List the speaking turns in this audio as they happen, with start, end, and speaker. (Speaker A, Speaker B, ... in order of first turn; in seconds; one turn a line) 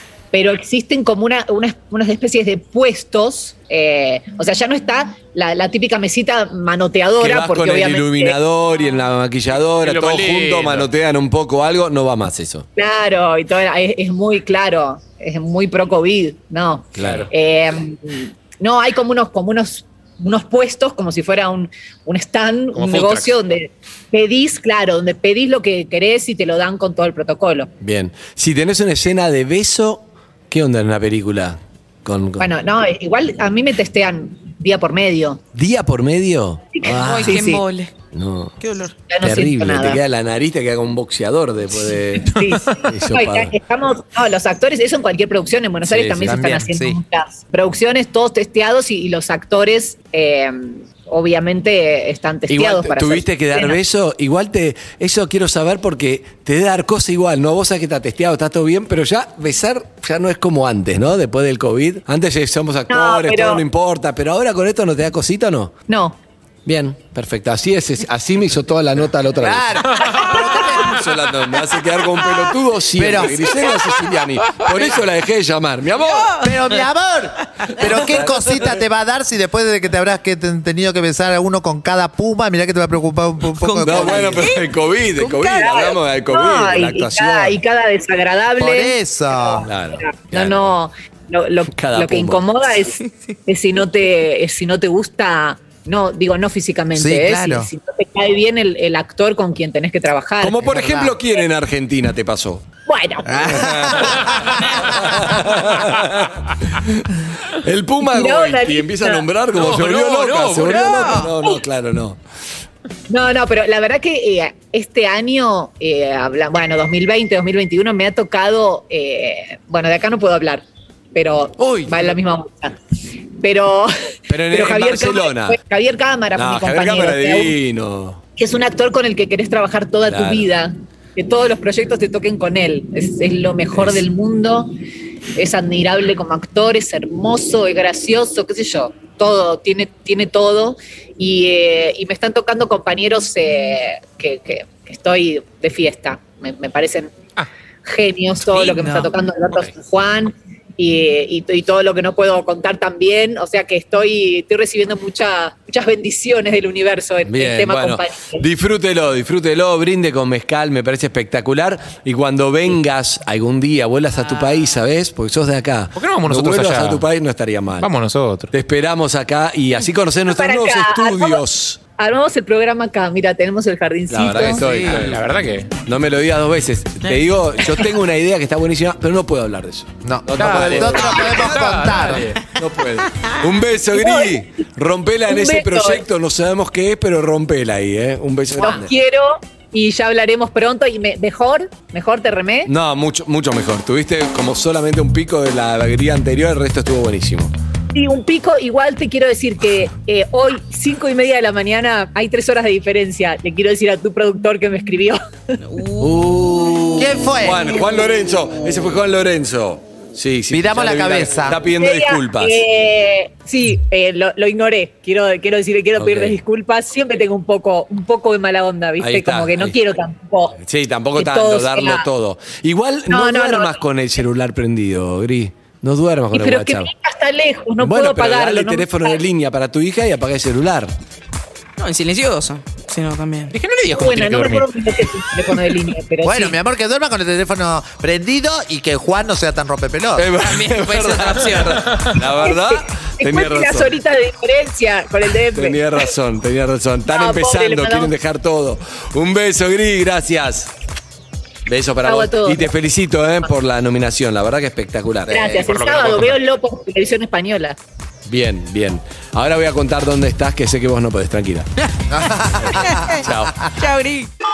Speaker A: 0.3-8.4
Speaker B: 7.2-12.6
Speaker C: 9.7-10.9
Speaker A: 12.8-27.7
Speaker B: 16.9-17.3
Speaker C: 17.0-17.3
Speaker C: 22.7-23.3
Speaker B: 27.8-32.5
Speaker A: 32.4-35.4
Speaker B: 35.5-37.5
Speaker A: 36.8-37.6
Speaker D: 36.9-37.9
Speaker B: 38.1-38.5
Speaker D: 38.6-38.9
Speaker A: 39.1-40.0
Speaker B: 39.2-42.3
Speaker A: 42.2-53.8
Speaker C: 42.3-42.6
Speaker B: 42.9-43.5
Speaker B: 45.8-46.4
Speaker E: 46.2-47.0
Speaker B: 52.5-65.7
Speaker A: 62.9-63.6
Speaker A: 65.9-66.2
Speaker B: 66.7-69.8
Speaker E: 69.4-71.0
Speaker A: 70.1-70.5
Speaker B: 70.7-76.3
Speaker E: 73.0-73.5
Speaker D: 76.0-76.7
Speaker E: 76.4-84.5
Speaker B: 77.8-78.8
Speaker D: 83.5-84.6
Speaker B: 83.8-87.6
Speaker D: 85.2-85.7
Speaker A: 85.6-101.0
Speaker E: 88.6-89.7
Speaker B: 89.6-90.7
Speaker B: 91.7-92.4
Speaker E: 96.9-97.7
Speaker B: 100.4-102.6
Speaker E: 100.7-101.1
Speaker A: 102.8-103.6
Speaker E: 103.2-105.4
Speaker B: 103.4-112.2
Speaker A: 108.0-109.2
Speaker C: 109.6-111.2
Speaker D: 110.6-111.3
Speaker A: 113.1-120.6
Speaker A: 121.1-122.8
Speaker B: 121.6-122.2
Speaker A: 123.4-123.9
Speaker B: 124.3-125.6
Speaker A: 124.5-127.5
Speaker B: 126.3-128.2
Speaker A: 128.4-134.7
Speaker B: 130.1-130.5
Speaker B: 133.7-134.0
Speaker A: 135.3-147.1
Speaker A: 147.8-158.4
Speaker D: 148.5-149.1
Speaker B: 157.2-167.9
Speaker C: 165.9-167.1
Speaker C: 167.8-168.5
Speaker B: 168.5-171.8
Speaker A: 170.2-171.4
Speaker A: 172.0-174.6
Speaker B: 174.1-175.2
Speaker C: 174.5-175.7
Speaker B: 175.8-181.4
Speaker E: 180.0-182.3
Speaker C: 180.3-182.4
Speaker B: 182.0-188.9
Speaker A: 183.9-184.3
Speaker A: 185.2-186.0
Speaker A: 188.6-192.7
Speaker B: 192.7-197.5
Speaker A: 197.9-205.6
Speaker D: 205.7-206.1
Speaker B: 206.0-212.6
Speaker E: 206.9-207.8
Speaker E: 210.5-211.6
Speaker A: 211.7-220.6
Speaker B: 215.9-216.4
Speaker B: 219.0-219.7
Speaker B: 220.6-226.9
Speaker A: 221.2-222.1
Speaker A: 223.1-223.8
Speaker A: 226.3-229.2
Speaker B: 227.8-230.9
Speaker D: 231.8-233.5
Speaker C: 233.5-234.7
Speaker A: 233.8-236.6
Speaker E: 236.2-240.3
Speaker B: 240.1-244.0
Speaker D: 240.4-241.9
Speaker A: 242.4-246.1
Speaker B: 245.5-250.7
Speaker A: 247.1-248.1
Speaker B: 251.7-255.7
Speaker A: 252.0-252.7
Speaker A: 255.3-257.8
Speaker C: 255.5-256.4
Speaker B: 258.2-261.7
Speaker E: 262.1-263.2
Speaker B: 262.6-263.6
Speaker D: 262.7-264.3